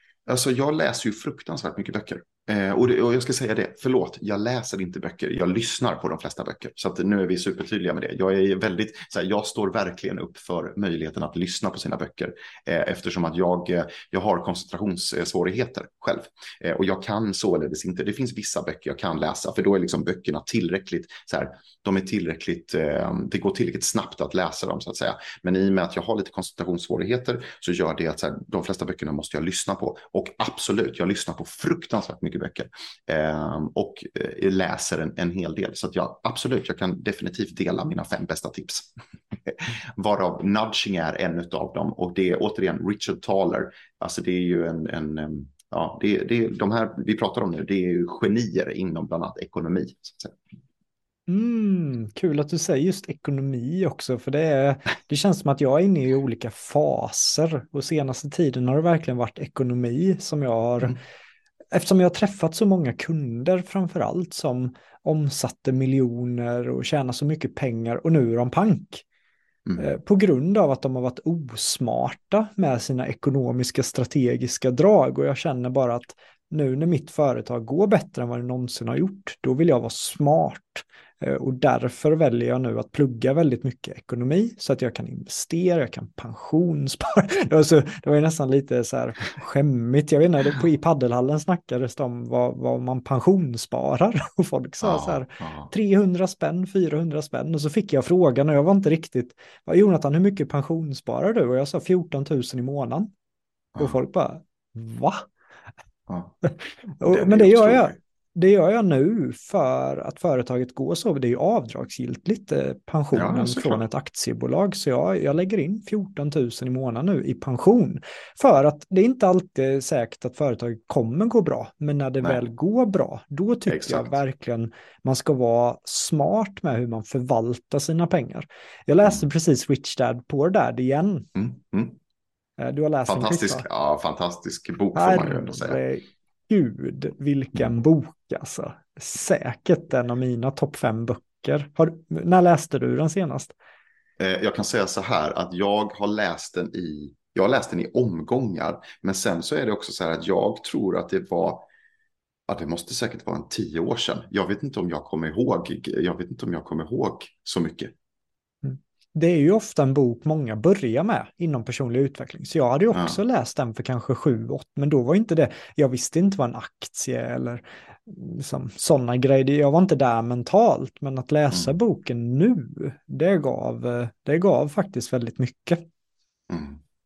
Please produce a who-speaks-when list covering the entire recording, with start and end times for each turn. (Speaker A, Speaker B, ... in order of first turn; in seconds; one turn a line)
Speaker A: 0.3-38.9
Speaker A: 39.5-50.4
Speaker B: 51.3-61.0
Speaker B: 61.7-69.0
Speaker B: 69.8-103.1
Speaker A: 94.8-95.7
Speaker A: 103.8-104.0
Speaker B: 103.8-105.3
Speaker A: 106.1-106.3
Speaker B: 106.5-131.3
Speaker A: 107.0-108.0
Speaker A: 113.1-113.8
Speaker A: 123.7-124.2
Speaker A: 131.4-131.9
Speaker B: 132.6-133.7
Speaker A: 133.1-135.8
Speaker B: 134.9-143.6
Speaker A: 144.2-151.7
Speaker A: 152.5-157.9
Speaker B: 158.6-175.8
Speaker A: 162.9-163.2
Speaker A: 176.5-176.8